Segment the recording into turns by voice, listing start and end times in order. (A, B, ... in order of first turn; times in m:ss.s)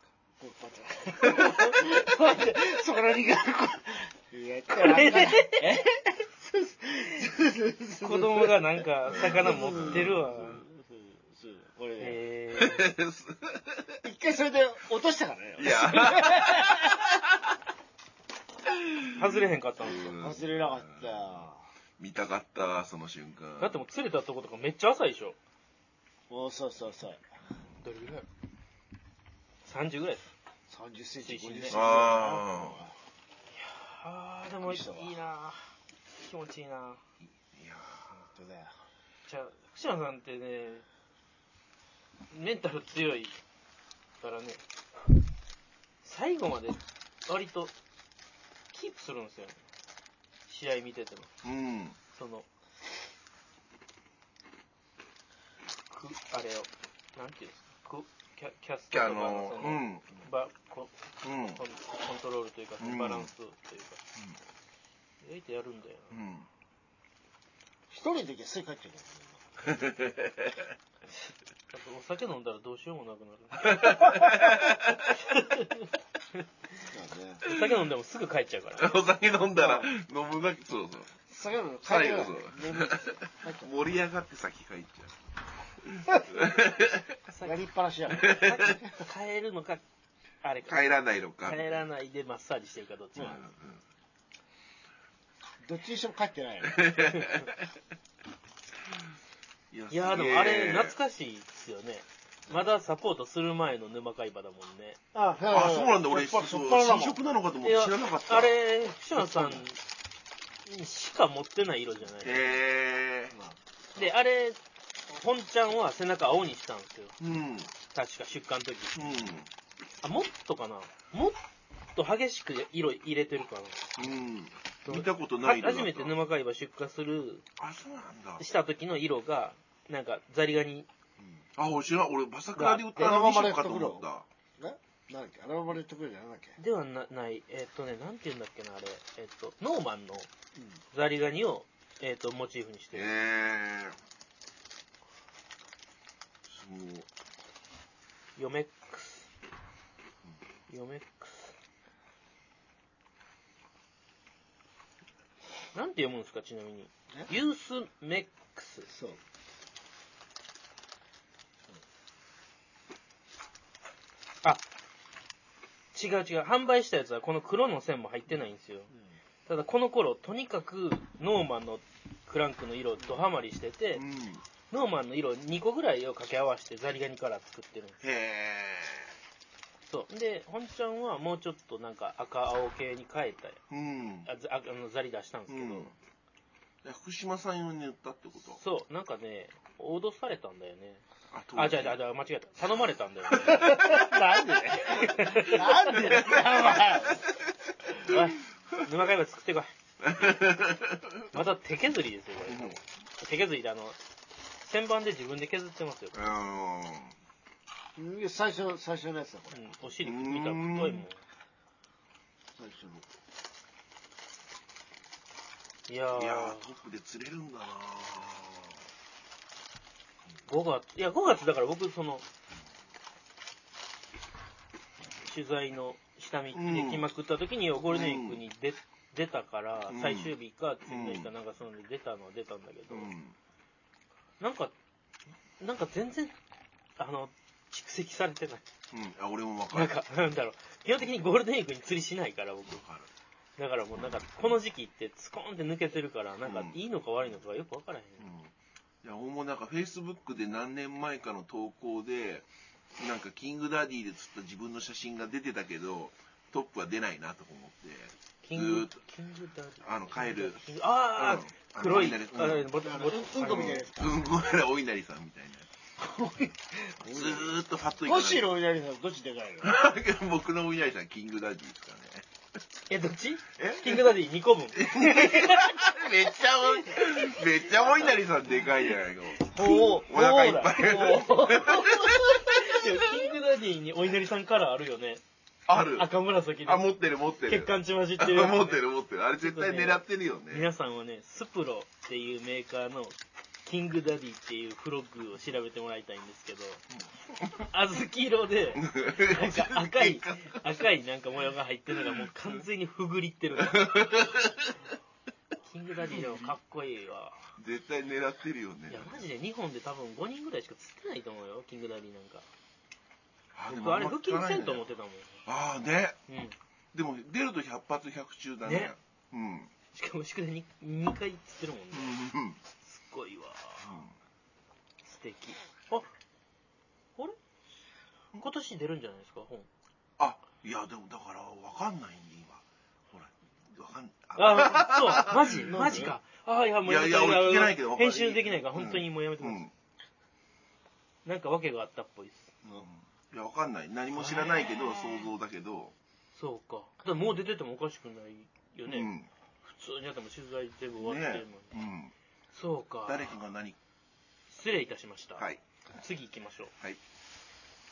0:00.4-0:12.2 A
0:01.3-0:01.9 B
0:01.4-0:01.8 C
0:04.8-0:05.9 C
0:08.0-0:10.6 C
0:09.1-0:10.3 B
0:12.0-0:12.9 C
0:12.6-0:14.0 B
0:14.0-0:17.0 A
0:15.6-0:17.5 B
0:15.6-0:16.7 C
0:18.7-0:21.3 B
0:19.1-0:20.2 C
0:19.9-0:21.6 A
0:22.0-0:23.8 B
0:23.6-0:25.4 C
0:26.3-0:27.2 A
0:27.8-0:28.3 C
0:29.6-0:30.3 C
0:30.7-0:32.9 A
0:31.2-0:32.0 C
0:31.7-0:32.9 B
0:33.5-0:37.0 C
0:34.6-0:35.1 A
0:37.5-0:38.1 B
0:38.2-0:38.8 A
0:39.2-0:40.8 C
0:42.3-0:43.4 C
0:44.2-0:44.6 C
0:46.0-0:47.7 C
0:48.7-0:49.6 C
0:50.5-0:51.3 C
0:51.4-0:52.0 B
0:52.1-0:52.5 C
0:55.9-1:04.0 C
0:58.9-1:00.2 B
1:01.2-1:01.6 B
1:02.8-1:03.3 B
1:05.2-1:06.2 C
1:06.1-1:06.5 B
1:07.9-1:09.6 A
1:09.6-1:10.7 B
1:11.7-1:16.4 C
1:13.6-1:15.1 B
1:16.9-1:17.4 A
1:17.4-1:17.8 B
1:17.4-1:18.9 C
1:18.8-1:21.1 B
1:19.6-1:19.9 A
1:21.3-1:23.6 A
1:21.8-1:25.2 B
1:25.8-1:27.1 B
1:27.3-1:27.6 C
1:27.4-1:29.0 A
1:28.1-1:29.8 C
1:28.2-1:28.7 B
1:30.4-1:33.4 C
1:30.7-1:31.7 B
1:33.2-1:33.8 B
1:35.6-1:37.1 A
1:36.6-1:37.6 B
1:37.1-1:37.5 C
1:39.7-1:41.0 B
1:39.9-1:45.0 C
1:45.1-1:47.2 A
1:45.5-1:48.6 B
1:47.6-1:49.8 C
1:49.1-1:49.6 B
1:50.6-1:52.5 C
1:52.2-1:53.3 B
1:53.9-1:54.6 C
1:55.1-1:57.2 C
1:57.2-1:57.7 B
1:57.9-1:59.0 C
1:58.9-1:59.5 B
2:00.0-2:01.4 C
2:02.0-2:03.9 C
2:04.0-2:06.2 B
2:04.8-2:07.4 C
2:07.6-2:08.4 B
2:08.4-2:10.9 C
2:11.2-2:11.4 A
2:11.6-2:14.2 B
2:12.6-2:13.1 C
2:12.8-2:14.0 A
2:14.6-2:16.6 A
2:16.6-2:20.3 C
2:20.9-2:23.1 C
2:22.9-2:24.0 B
2:26.5-2:27.1 B
2:28.4-2:29.3 C
2:30.7-2:31.5 C
2:35.7-2:38.9 C
2:38.9-2:39.2 A
2:45.9-2:48.9 C
2:49.4-2:54.0 C
2:53.9-2:54.4 B
2:54.7-2:58.0 C
2:58.0-2:59.1 B
2:59.9-3:03.6 C
3:03.7-3:04.3 B
3:04.2-3:05.9 C
3:05.5-3:05.9 B
3:06.8-3:08.6 B
3:08.6-3:11.0 C
3:11.3-3:12.0 B
3:11.5-3:14.0 C
3:13.4-3:17.2 A
3:13.4-3:14.0 B
3:14.8-3:16.8 C
3:16.0-3:17.2 B
3:17.9-3:19.7 C
3:18.0-3:18.3 B
3:20.0-3:21.4 B
3:21.3-3:24.0 C
3:22.5-3:22.8 B
3:24.6-3:26.3 C
3:26.1-3:27.1 B
3:28.0-3:29.6 A
3:29.5-3:31.2 C
3:30.0-3:31.0 B
3:32.6-3:33.0 A
3:35.9-3:36.6 C
3:36.2-3:38.8 B
3:40.5-3:42.2 C
3:45.2-3:53.1 C
3:46.5-3:47.1 B
3:47.9-3:48.4 B
3:49.9-3:50.3 B
3:50.8-3:51.3 B
3:52.9-3:53.4 B
3:54.4-3:54.7 C
3:55.6-3:56.3 C
3:57.0-3:58.7 C
3:58.9-4:00.0 B
3:59.7-4:02.8 C
4:02.7-4:03.1 B
4:03.6-4:08.3 C
4:06.4-4:06.8 B
4:08.2-4:08.5 B
4:09.0-4:19.0 B
4:18.4-4:23.8 C
4:19.8-4:22.7 B
4:22.8-4:24.2 A
4:23.4-4:25.7 B
4:26.0-4:29.7 A
4:27.0-4:28.5 B
4:29.6-4:32.3 B
4:32.9-4:36.0 C
4:33.6-4:34.2 B
4:34.7-4:42.9 B
4:36.6-4:37.6 C
4:39.4-4:45.2 C
4:39.5-4:41.9 A
4:45.7-4:46.1 B
4:45.8-4:46.9 C
4:46.6-4:50.7 B
4:47.4-4:48.8 C
4:49.4-4:56.8 C
4:57.4-4:57.6 B
4:57.6-5:04.3 C
4:58.8-5:00.6 B
5:02.0-5:02.3 B
5:03.6-5:04.8 B
5:05.6-5:07.5 C
5:06.1-5:06.5 B
5:07.6-5:09.2 B
5:08.9-5:12.5 C
5:13.5-5:14.8 B
5:13.7-5:15.4 C
5:15.4-5:16.2 B
5:16.3-5:16.6 C
5:16.9-5:19.7 B
5:18.6-5:18.9 C
5:19.9-5:22.2 C
5:21.9-5:22.6 B
5:22.8-5:24.0 C
5:23.8-5:24.1 B
5:25.0-5:26.1 C
5:28.3-5:29.7 C
5:30.2-5:36.1 B
5:34.3-5:39.6 C
5:35.6-5:36.1 A
5:36.8-5:39.7 B
5:41.2-5:42.5 C
5:42.7-5:45.9 B
5:44.1-5:45.3 C
5:46.3-5:49.1 C
5:48.8-5:49.3 B
5:49.6-5:51.8 C
5:51.0-5:52.1 B
5:52.5-5:53.3 C
5:53.0-5:53.8 B
5:54.5-5:56.7 C